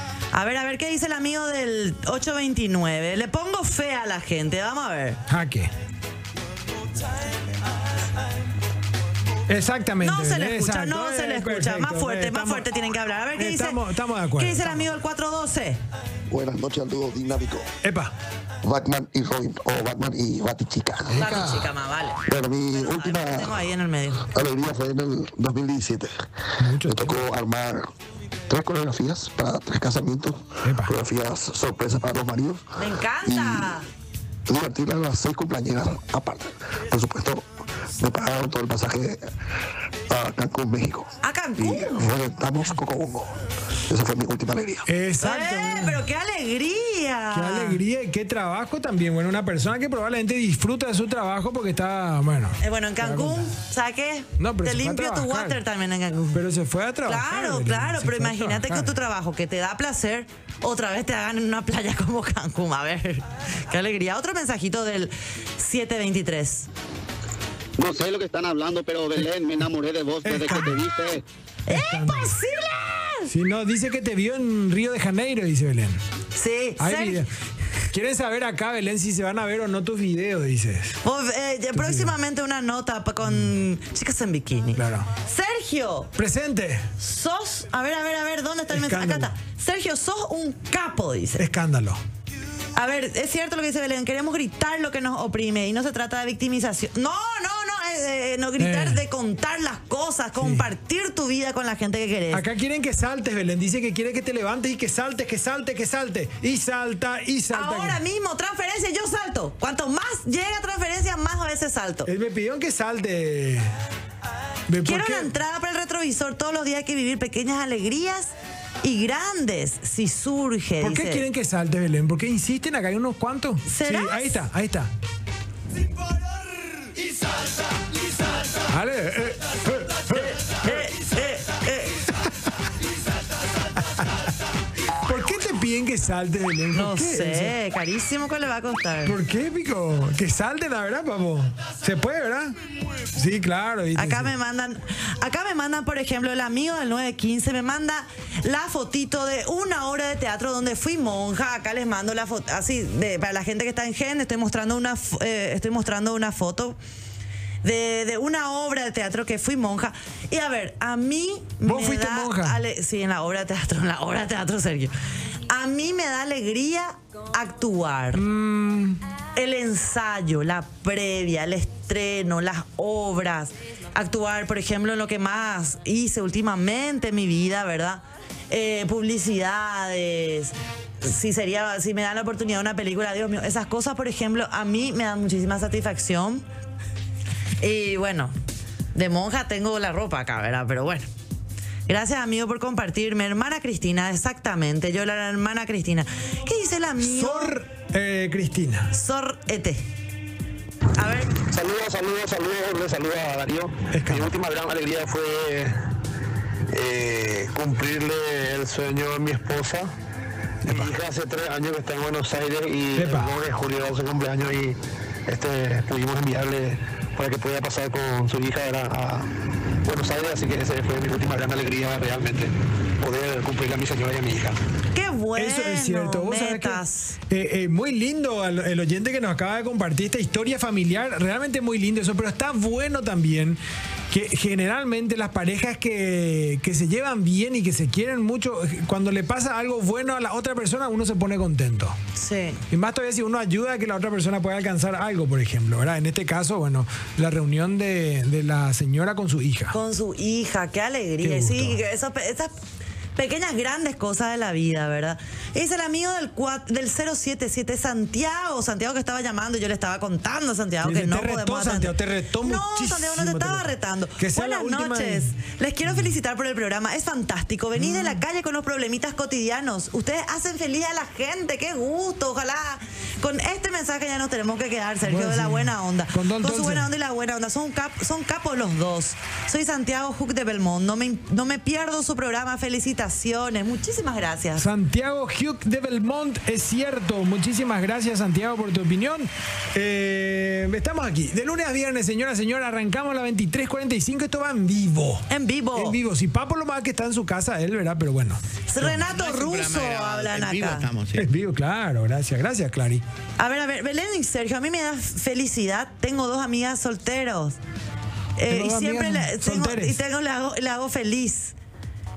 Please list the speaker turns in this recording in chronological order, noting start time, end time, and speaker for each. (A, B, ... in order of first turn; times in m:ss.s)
0:00.3-0:05.2 A
0:05.3-0:05.7 B
0:09.5-0:12.7 B
0:10.0-0:13.8 A
0:13.4-0:14.9 B
0:14.4-0:15.8 A
0:16.3-0:17.7 C
0:17.8-0:18.1 B
0:18.6-0:21.2 C
0:21.1-0:21.7 B
0:21.1-0:24.3 A
0:22.2-0:23.6 C
0:24.2-0:26.1 C
0:26.6-0:27.2 B
0:26.8-0:27.9 C
0:28.5-0:32.7 C
0:30.6-0:30.9 B
0:32.8-0:33.9 A
0:33.2-0:33.8 C
0:34.5-0:37.4 C
0:38.0-0:39.2 C
0:40.1-0:43.4 C
0:41.2-0:42.1 A
0:43.9-0:44.9 C
0:44.9-0:46.0 B
0:45.2-0:47.8 A
0:47.3-0:53.5 B
0:52.6-0:56.4 A
0:54.4-0:55.6 B
0:56.3-0:59.0 B
0:57.1-1:06.7 A
1:07.8-1:11.2 D
1:10.2-1:10.8 B
1:11.7-1:13.3 A
1:11.7-1:12.4 B
1:13.3-1:16.0 B
1:16.4-1:17.2 A
1:16.8-1:17.3 B
1:17.9-1:21.0 B
1:21.0-1:26.1 A
1:21.7-1:22.2 B
1:24.8-1:25.1 B
1:26.2-1:26.9 B
1:27.0-1:31.4 A
1:28.7-1:29.3 B
1:31.4-1:32.0 B
1:32.8-1:42.4 A
1:38.6-1:39.0 B
1:40.4-1:40.7 B
1:42.3-1:48.0 B
1:47.5-1:52.1 A
1:52.1-1:53.7 B
1:54.7-1:55.3 B
1:54.8-2:01.2 A
2:00.8-2:04.9 B
2:03.6-2:04.5 A
2:08.7-2:10.8 B
2:10.2-2:12.0 A
2:15.0-2:17.6 B
2:16.7-2:19.2 A
2:19.0-2:22.6 B
2:23.1-2:24.3 B
2:24.0-2:36.8 A
2:37.6-2:44.9 A
2:41.6-2:42.6 B
2:45.5-2:48.2 A
2:48.1-2:49.0 B
2:49.4-3:06.4 A
3:07.6-3:08.3 A
3:08.9-3:11.1 A
3:11.9-3:17.6 A
3:17.0-3:18.9 B
3:18.9-3:19.8 A
3:21.0-3:21.4 A
3:21.4-3:25.8 E
3:23.9-3:24.4 B
3:26.7-3:29.9 E
3:30.6-3:30.9 B
3:30.6-3:39.3 E
3:33.0-3:33.3 B
3:39.8-3:44.6 E
3:44.9-3:47.2 A
3:45.4-4:02.0 B
4:02.2-4:02.6 A
4:02.7-4:09.8 B
4:09.7-4:12.5 A
4:11.2-4:11.8 B
4:13.2-4:44.7 A
4:20.8-4:25.3 B
4:25.9-4:26.1 B
4:27.8-4:28.2 B
4:35.0-4:36.9 B
4:44.6-4:59.2 B
4:55.3-4:56.0 A
4:58.7-5:01.0 A
5:00.7-5:01.0 E
5:01.1-5:03.0 B
5:03.4-5:07.6 A
5:08.4-5:11.6 A
5:08.5-5:10.0 B